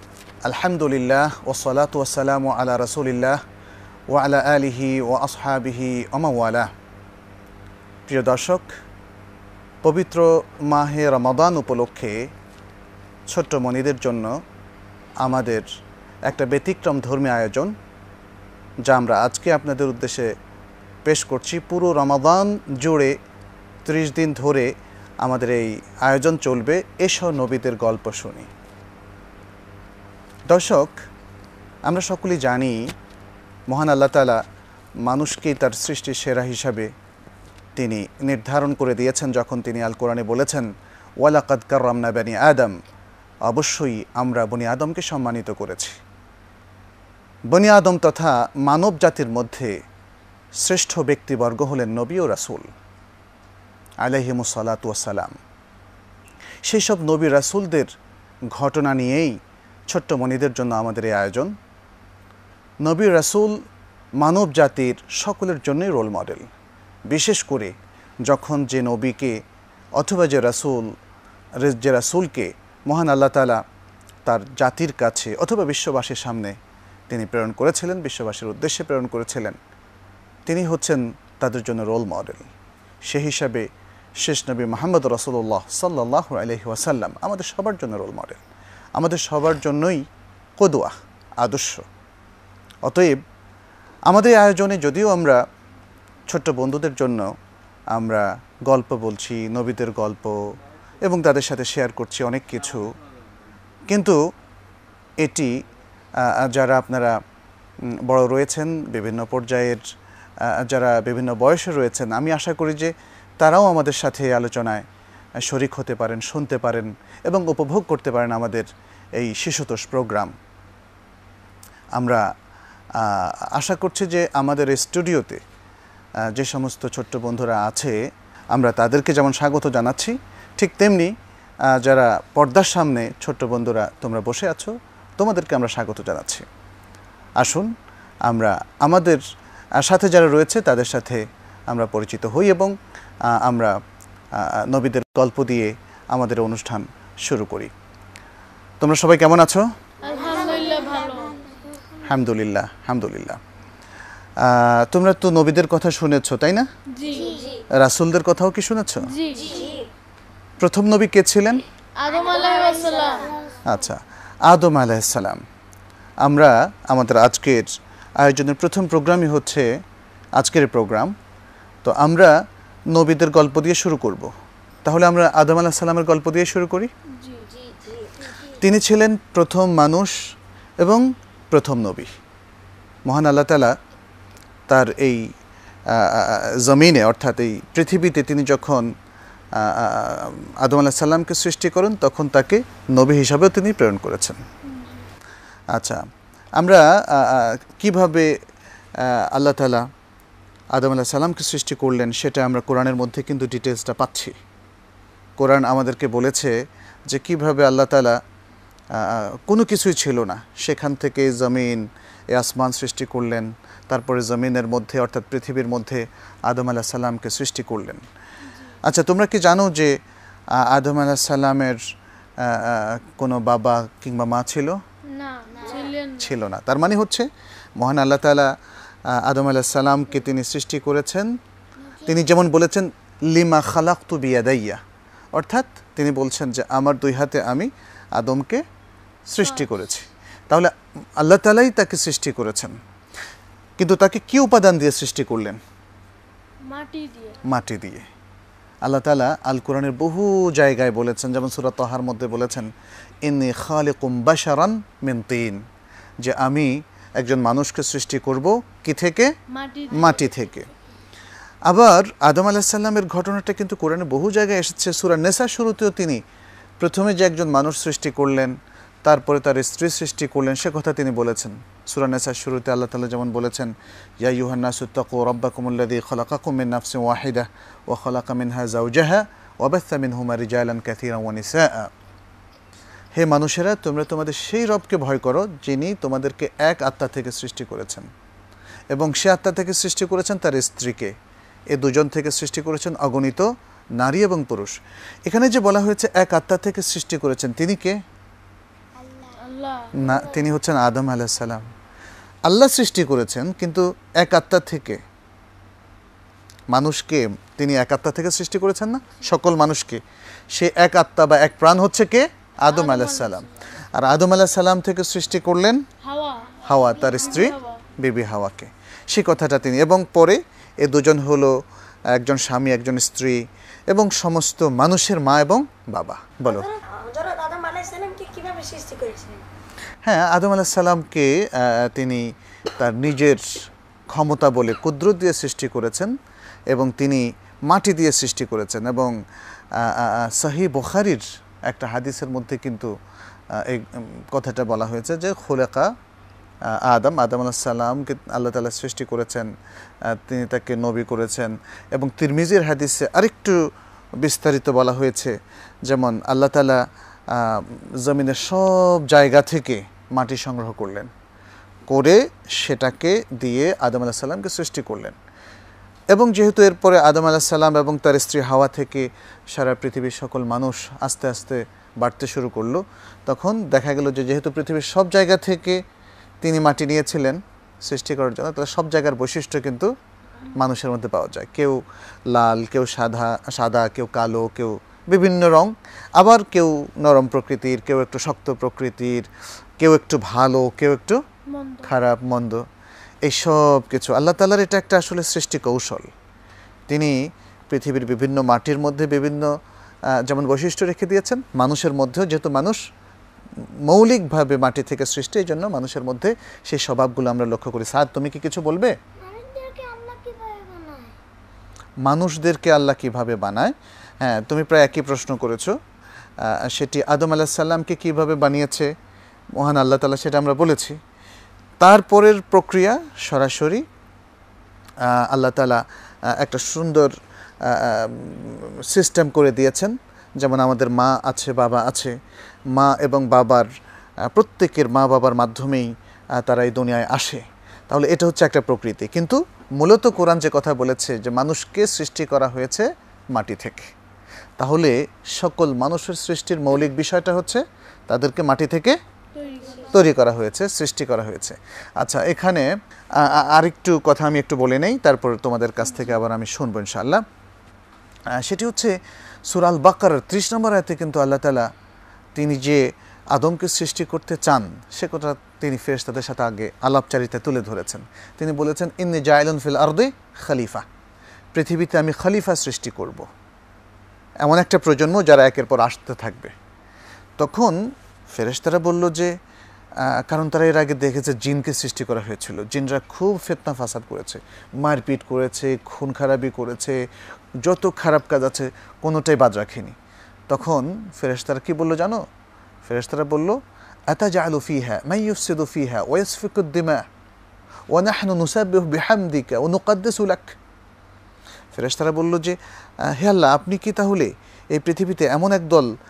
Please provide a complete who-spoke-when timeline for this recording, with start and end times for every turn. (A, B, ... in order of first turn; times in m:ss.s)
0:00.4-0:03.4 A
0:04.1-0:06.7 A
0:08.1-0:08.7 A
0:09.8-0:12.3 A
0:13.3-0:14.4 A
0:15.2-0:15.7 A
0:16.2-0:17.7 A
0:18.9-0:20.3 A
0:21.0-0:23.2 A
0:23.8-0:28.5 A
0:30.5-0:31.0 A
0:31.9-0:32.9 A
0:33.7-0:34.4 A
0:35.0-0:36.9 A
0:37.8-0:40.7 A
0:41.2-0:42.8 A
0:43.4-0:46.0 A
0:47.5-0:49.8 A
0:50.6-0:52.7 A
0:54.0-0:55.4 A
0:56.6-0:57.9 A
0:58.5-0:59.4 A
0:59.9-1:01.5 A
1:02.8-1:03.6 A
1:04.2-1:06.5 A
1:07.1-1:07.7 A
1:08.3-1:09.4 A
1:10.0-1:10.9 A
1:11.6-1:13.6 A
1:14.2-1:16.6 A
1:17.1-1:19.6 A
1:20.5-1:22.5 A
1:23.1-1:23.7 A
1:24.2-1:28.4 A
1:29.0-1:30.0 A
1:30.6-1:31.9 A
1:32.8-1:33.2 A
1:34.1-1:35.4 A
1:36.3-1:37.3 A
1:37.9-1:42.9 A
1:43.9-1:44.2 A
1:45.2-1:45.6 A
1:46.2-1:47.2 A
1:47.9-1:49.8 A
1:50.4-1:54.8 A
1:55.4-2:00.3 A
2:02.0-2:02.3 A
2:03.0-2:05.4 A
2:06.2-2:08.0 A
2:08.5-2:11.1 A
2:11.7-2:16.4 A
2:17.4-2:17.7 A
2:18.3-2:19.2 A
2:19.8-2:22.7 A
2:23.3-2:23.8 A
2:24.3-2:27.7 A
2:28.8-2:29.7 A
2:30.0-2:31.4 B
2:30.0-2:32.0 C
2:32.0-2:33.4 A
2:34.4-2:36.7 A
2:36.9-2:37.5 B
2:37.0-2:37.7 C
2:37.7-2:39.1 A
2:39.0-2:39.8 B
2:39.3-2:39.9 C
2:40.6-2:41.6 A
2:42.0-2:43.4 B
2:42.0-2:43.9 C
2:43.6-2:45.4 A
2:46.2-2:49.7 A
2:50.4-2:51.1 A
2:51.8-2:52.3 A
2:52.9-2:54.3 A
2:54.8-2:56.9 A
2:57.1-2:57.5 B
2:57.4-2:58.6 C
2:58.6-3:00.2 A
3:00.8-3:02.1 A
3:03.0-3:03.7 A
3:04.7-3:05.2 A
3:05.9-3:08.9 A
3:09.5-3:14.4 A
3:14.6-3:15.0 B
3:15.7-3:16.0 A
3:16.6-3:18.3 A
3:19.0-3:19.9 A
3:20.7-3:24.4 A
3:25.4-3:28.2 A
3:28.9-3:38.0 A
3:38.4-3:38.8 B
3:38.8-3:40.0 A
3:40.5-3:41.8 A
3:42.4-3:44.8 A
3:45.0-3:46.4 B
3:45.5-3:46.0 C
3:46.2-3:48.5 A
3:49.1-3:51.4 A
3:51.8-3:52.2 C
3:52.0-3:54.8 A
3:55.3-3:58.6 A
3:59.3-4:02.8 A
3:59.4-3:59.7 B
4:03.8-4:05.6 A
4:06.6-4:07.5 B
4:07.4-4:08.1 A
4:08.8-4:12.7 A
4:13.2-4:15.6 A
4:16.2-4:19.3 A
4:19.5-4:20.5 B
4:19.9-4:20.7 A
4:21.7-4:26.2 A
4:26.8-4:41.9 A
4:43.1-4:48.1 A
4:48.9-4:51.1 A
4:51.7-4:54.8 A
4:55.3-4:58.0 A
4:59.0-4:59.4 C
4:59.4-4:59.9 B
4:59.9-5:00.5 C
4:59.9-5:01.7 A
5:02.5-5:05.0 A
5:06.7-5:10.0 A
5:10.5-5:15.8 A
5:12.7-5:13.7 B
5:16.0-5:17.8 B
5:16.6-5:21.6 A
5:16.8-5:17.6 C
5:22.1-5:26.6 A
5:26.4-5:29.4 C
5:30.0-5:33.5 A
5:34.1-5:36.1 A
5:36.7-5:39.1 A
5:39.8-5:42.9 A
5:43.5-5:45.9 A
5:46.7-5:49.5 A
5:50.0-5:53.6 A
5:54.2-5:55.3 A
5:55.9-6:01.1 A
6:01.9-6:05.2 A
6:06.1-6:15.8 A
6:16.4-6:19.9 A
6:20.5-6:29.3 A
6:29.8-6:31.2 A
6:31.5-6:32.0 B
6:31.8-6:32.6 A
6:33.2-6:36.1 A
6:36.9-6:39.5 A
6:40.1-6:42.8 A
6:43.9-6:48.9 A
6:49.2-6:51.1 C
6:52.0-6:55.8 A
6:56.4-6:58.9 A
6:59.6-7:01.0 A
7:01.8-7:03.8 A
7:05.0-7:12.1 A
7:12.7-7:13.7 A
7:14.3-7:23.9 A
7:24.6-7:29.0 A
7:29.3-7:30.1 B
7:29.6-7:30.1 C
7:29.9-7:37.2 A
7:38.3-7:38.9 A
7:39.5-7:41.7 A
7:42.4-7:50.8 A
7:51.5-7:53.3 A
7:54.4-7:56.5 A
7:57.4-7:59.3 A
8:00.0-8:07.0 A
8:07.6-8:10.0 A
8:10.5-8:12.2 A
8:12.8-8:17.0 A
8:17.9-8:20.6 A
8:21.7-8:25.9 A